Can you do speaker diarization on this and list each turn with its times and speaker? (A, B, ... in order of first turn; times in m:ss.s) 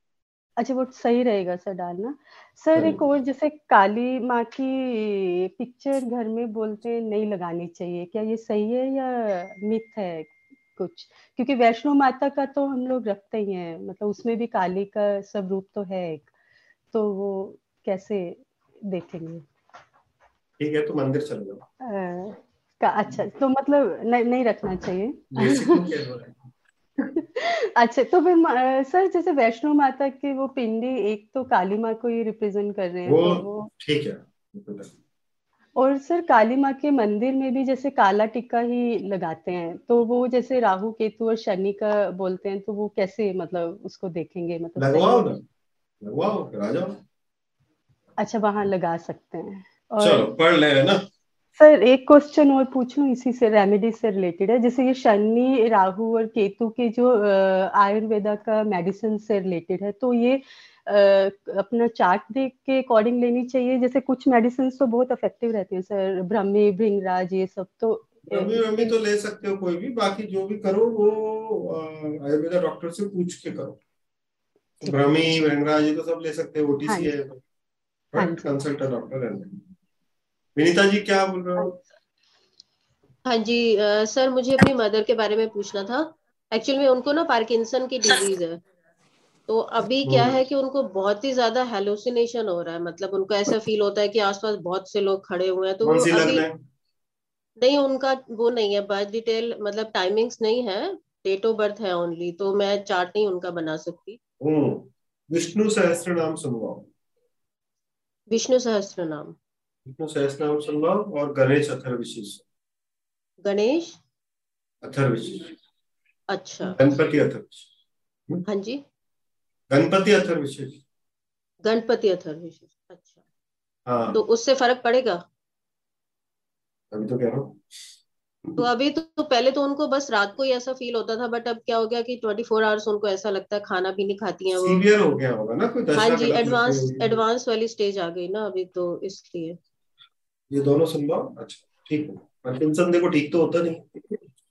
0:00.6-0:16.3 A
0:02.8-0:03.0 B
0:16.9-0:19.4 A
0:20.6-0:21.6 B
0:21.8-0:25.9 A
0:25.3-0:26.4 B
0:27.1-0:33.7 A
0:33.0-0:34.9 B
0:35.8-0:45.3 A
0:44.8-0:45.4 B
0:46.0-0:46.9 B
0:48.2-0:50.3 A
0:50.0-0:51.0 B
0:51.6-1:08.9 A
1:08.3-1:13.8 B
1:14.8-1:17.4 B
1:16.9-1:17.1 A
1:18.1-1:19.5 B
1:18.2-1:18.5 A
1:20.6-1:21.7 B
1:23.2-1:28.6 C
1:29.5-1:36.4 C
1:30.0-1:30.4 B
1:35.8-1:36.5 B
1:37.6-1:44.2 C
1:44.4-1:46.8 B
1:48.3-1:49.3 C
1:49.8-1:52.4 B
1:53.4-1:54.0 C
1:54.8-1:55.4 B
1:56.3-1:56.8 C
1:56.6-1:57.6 B
1:58.5-1:58.8 C
1:59.7-2:00.8 B
2:01.6-2:03.2 C
2:03.9-2:04.2 B
2:04.1-2:05.2 C
2:06.9-2:07.6 B
2:08.6-2:14.8 C
2:14.6-2:17.2 B
2:16.0-2:19.6 C
2:20.5-2:24.2 B